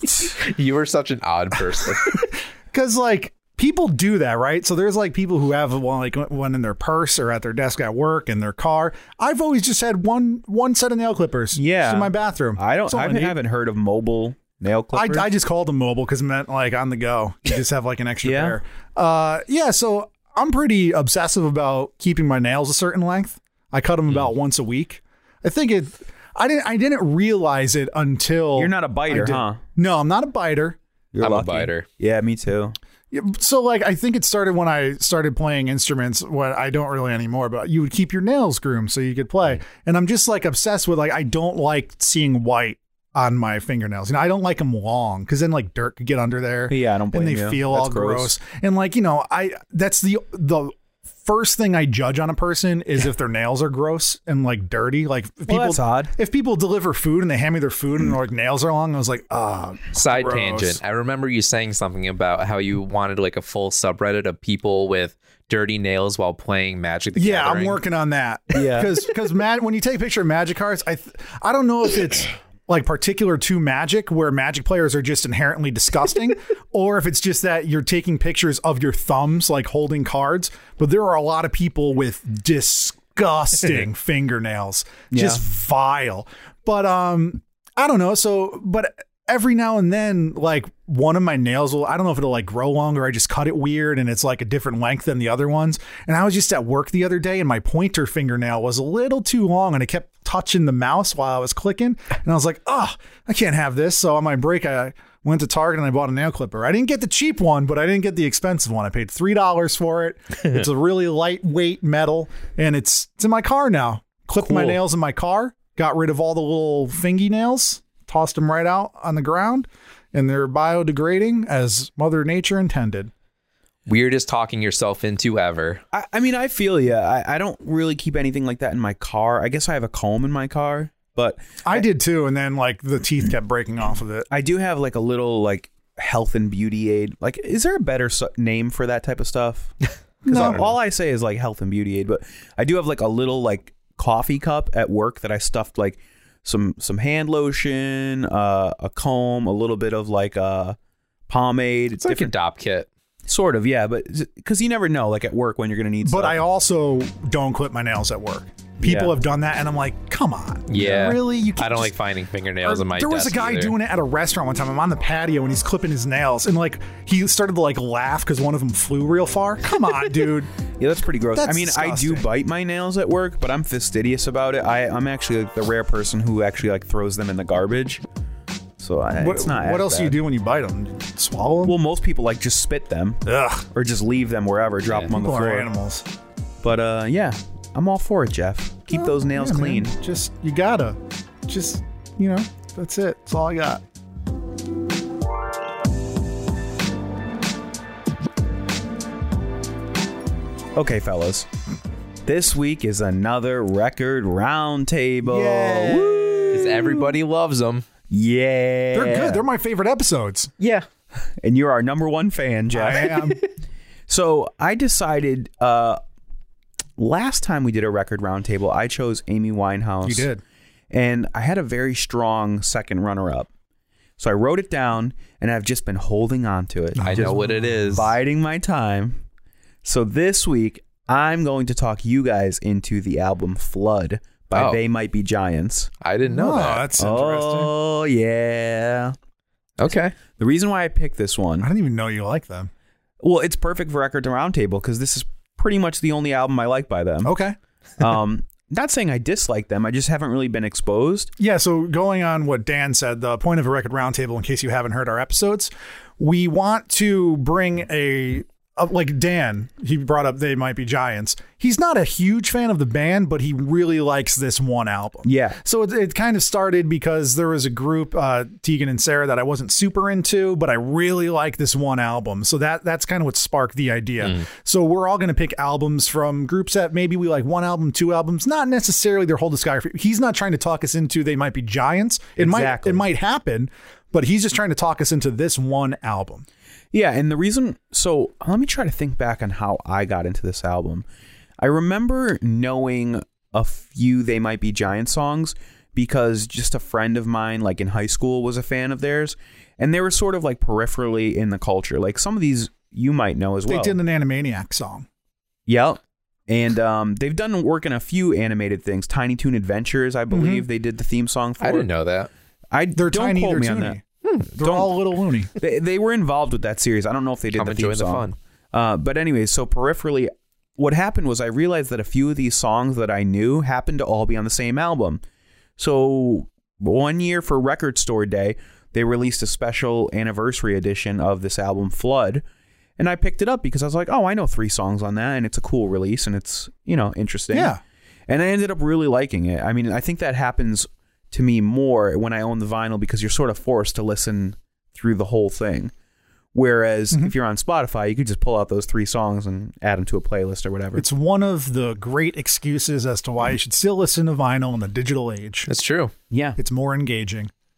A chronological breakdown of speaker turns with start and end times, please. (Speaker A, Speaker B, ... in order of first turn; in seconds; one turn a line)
Speaker A: 0.2-2.3
Speaker B: 2.1-13.4
Speaker C: 11.5-15.3
Speaker B: 14.9-30.8
Speaker C: 18.2-18.6
Speaker C: 28.6-29.6
Speaker C: 31.1-32.8
Speaker A: 31.2-31.9
Speaker B: 33.1-50.7
Speaker C: 46.7-48.3
Speaker B: 51.2-60.8
Speaker C: 55.5-56.1
Speaker A: 59.9-67.8
Speaker B: 67.2-123.1
Speaker C: 68.5-68.9
Speaker C: 85.1-85.4
Speaker A: 123.8-125.8
Speaker C: 125.9-131.8
Speaker B: 131.6-134.3
Speaker C: 134.3-139.7
Speaker A: 140.2-140.6
Speaker B: 140.2-140.7
Speaker C: 140.3-150.8
Speaker C: 151.3-152.3
Speaker A: 152.0-152.9
Speaker C: 153.3-156.4
Speaker B: 156.0-161.9
Speaker C: 158.8-159.1
Speaker A: 160.7-163.7
Speaker B: 162.6-170.5
Speaker C: 170.8-178.0
Speaker B: 171.3-172.3
Speaker C: 178.8-180.2
Speaker B: 179.2-181.7
Speaker C: 181.6-185.7
Speaker B: 183.2-183.7
Speaker B: 185.1-186.0
Speaker C: 186.6-189.9
Speaker B: 188.9-193.8
Speaker C: 200.7-201.5
Speaker C: 202.2-207.1
Speaker B: 205.2-206.5
Speaker A: 206.5-207.9
Speaker C: 208.1-209.4
Speaker B: 208.9-210.5
Speaker A: 210.6-210.8
Speaker C: 211.4-213.2
Speaker B: 212.7-213.4
Speaker C: 214.1-216.0
Speaker C: 217.0-220.3
Speaker B: 220.0-220.4
Speaker C: 220.9-223.5
Speaker C: 224.2-227.4
Speaker B: 226.9-228.1
Speaker A: 227.0-228.1
Speaker C: 227.9-229.2
Speaker C: 229.8-235.9
Speaker A: 234.5-234.8
Speaker A: 236.0-236.9
Speaker B: 236.3-237.7
Speaker C: 237.0-239.2
Speaker A: 239.8-240.1
Speaker C: 240.3-241.7
Speaker B: 241.6-242.7
Speaker C: 243.2-247.3
Speaker B: 247.2-247.5
Speaker C: 248.0-251.3
Speaker B: 251.4-286.4
Speaker C: 265.2-265.6
Speaker C: 282.4-283.0
Speaker C: 286.9-291.1
Speaker C: 291.6-304.0
Speaker B: 303.7-305.1
Speaker C: 305.7-311.9
Speaker B: 310.3-310.6
Speaker A: 311.6-312.3
Speaker C: 312.7-314.0
Speaker B: 312.9-315.5
Speaker C: 314.6-314.9
Speaker C: 315.6-325.2
Speaker A: 317.5-318.3
Speaker C: 325.8-332.4
Speaker C: 333.0-337.7
Speaker B: 337.5-337.8
Speaker C: 338.3-345.9
Speaker C: 346.5-351.0
Speaker B: 350.9-355.7
Speaker A: 355.7-356.1
Speaker C: 356.3-356.6
Speaker B: 356.6-357.5